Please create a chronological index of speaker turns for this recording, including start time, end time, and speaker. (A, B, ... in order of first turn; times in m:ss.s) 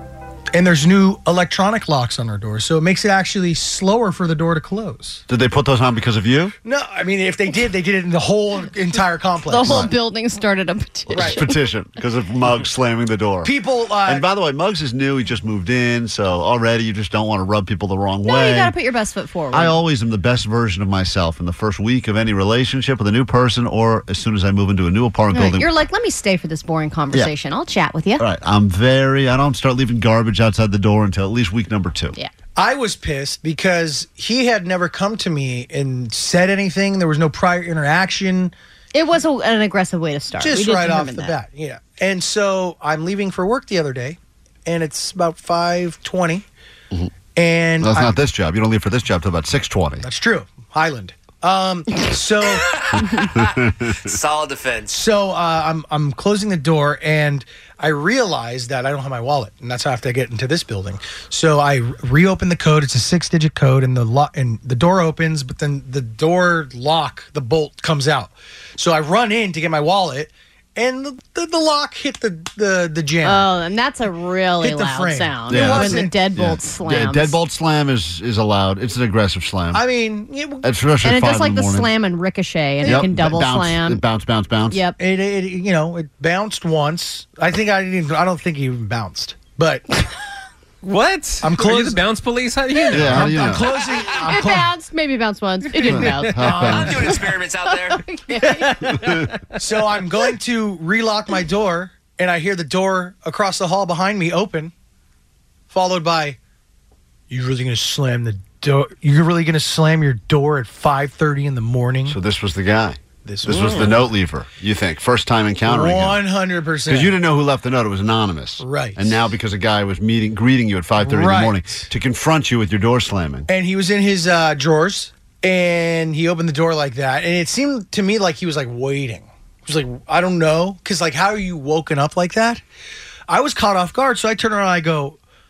0:00.5-0:05.2 A
0:05.3-0:06.5 B
0:06.6-0:09.9 A
0:09.5-0:11.5 C
0:09.6-0:09.9 B
0:11.1-0:13.5 B
0:11.1-0:11.4 A
0:13.4-0:14.3 A
0:14.0-0:18.7 B
0:18.3-0:19.8 C
0:19.5-0:25.8 B
0:25.3-0:28.2 C
0:28.2-0:32.2 B
0:32.6-0:38.5 A
0:38.9-0:41.4 C
0:40.4-0:46.4 A
0:47.4-0:48.2 A
0:47.8-0:50.1 B
0:50.0-0:52.7 A
0:52.7-0:54.9 D
0:53.0-0:54.1 B
0:54.9-1:13.5 A
1:13.2-1:17.4 C
1:14.6-1:16.2 A
1:15.5-1:19.8 B
1:19.7-1:20.6 A
1:20.6-1:21.9 B
1:21.0-1:24.0 C
1:22.8-1:24.8 B
1:24.7-1:25.0 C
1:25.0-1:29.8 A
1:30.8-1:33.6 E
1:31.4-1:32.1 A
1:32.9-1:34.7 A
1:32.9-1:33.7 B
1:34.1-1:38.8 C
1:35.8-1:37.1 B
1:36.0-1:37.2 A
1:36.6-1:38.0 D
1:38.4-1:39.0 E
1:38.9-1:39.3 B
1:39.6-1:44.7 A
1:45.7-1:46.4 A
1:47.3-1:52.2 A
1:52.1-1:56.2 B
1:53.2-1:54.1 A
1:53.5-1:53.9 E
1:55.6-1:57.2 A
1:56.9-2:03.5 B
1:58.6-1:59.2 A
2:01.0-2:01.9 A
2:03.5-2:12.6 A
2:13.3-2:15.2 A